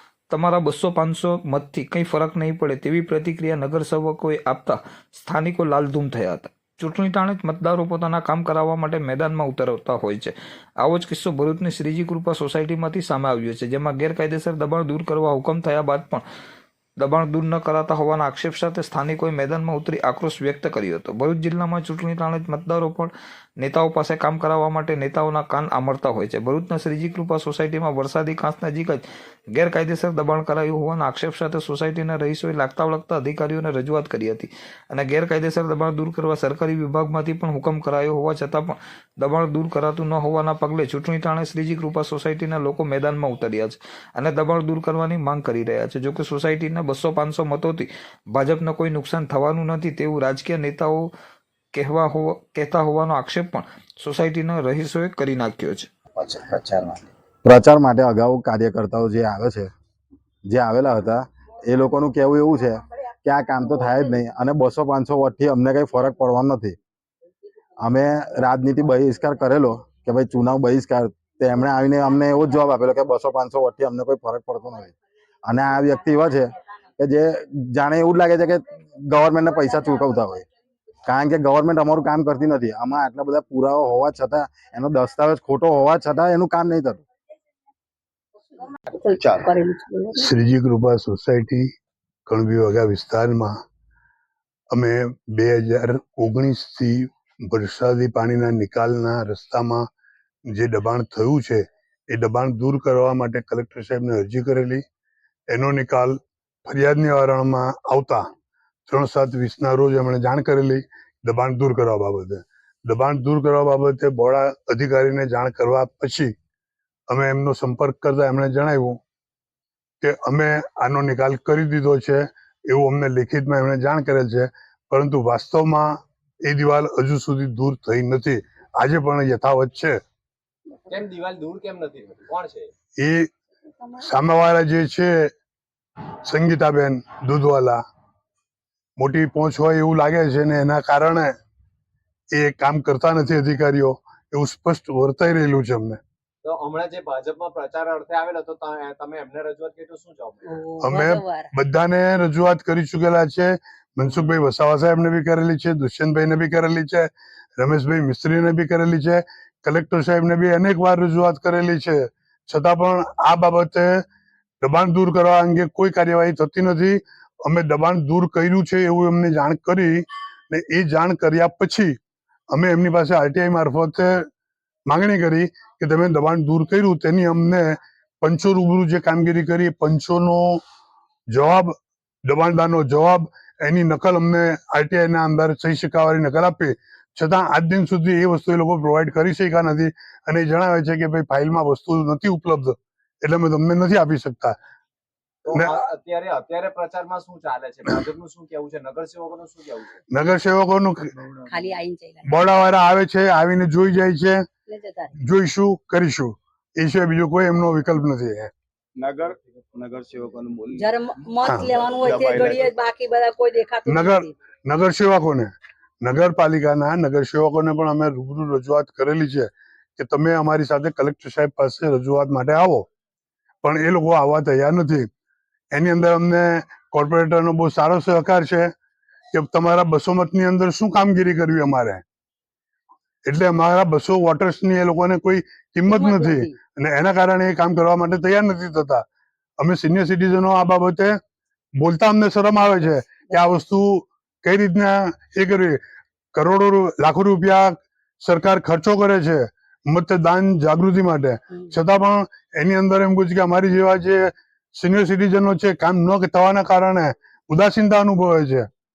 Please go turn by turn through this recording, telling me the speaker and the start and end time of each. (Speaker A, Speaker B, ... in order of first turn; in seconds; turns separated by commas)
Speaker A: 0.3-16.2, Speaker A: 17.0-51.1, Speaker A: 51.7-55.9, Speaker B: 56.2-59.7, Speaker B: 60.5-66.8, Speaker B: 67.8-74.9, Speaker B: 75.5-80.5, Speaker B: 81.1-87.0, Speaker C: 88.9-90.3, Speaker D: 89.2-89.5, Speaker E: 90.2-91.7, Speaker E: 92.3-93.5, Speaker E: 94.7-99.9, Speaker E: 100.5-104.8, Speaker E: 105.5-108.2, Speaker E: 108.9-116.3, Speaker E: 117.1-119.0, Speaker E: 120.0-130.0, Speaker F: 130.9-132.7, Speaker E: 133.0-133.3, Speaker E: 133.9-135.3, Speaker E: 136.2-137.8, Speaker E: 139.0-141.3, Speaker E: 142.3-146.0, Speaker F: 146.4-150.7, Speaker C: 150.4-151.5, Speaker E: 150.8-164.0, Speaker E: 164.6-172.0, Speaker E: 172.5-174.2, Speaker E: 174.9-180.6, Speaker E: 181.3-194.6, Speaker F: 195.5-200.0, Speaker E: 200.1-201.1, Speaker D: 201.2-201.6, Speaker C: 201.5-202.7, Speaker E: 202.2-204.5, Speaker C: 204.7-205.1, Speaker E: 205.2-208.5, Speaker D: 209.0-211.0, Speaker C: 210.8-214.3, Speaker E: 211.4-211.7, Speaker D: 211.7-212.8, Speaker E: 213.9-222.9, Speaker E: 223.6-225.1, Speaker E: 225.7-228.7, Speaker E: 229.3-232.0, Speaker E: 233.2-239.0, Speaker C: 235.9-236.6, Speaker E: 239.6-241.2, Speaker E: 241.8-245.8, Speaker E: 246.3-258.7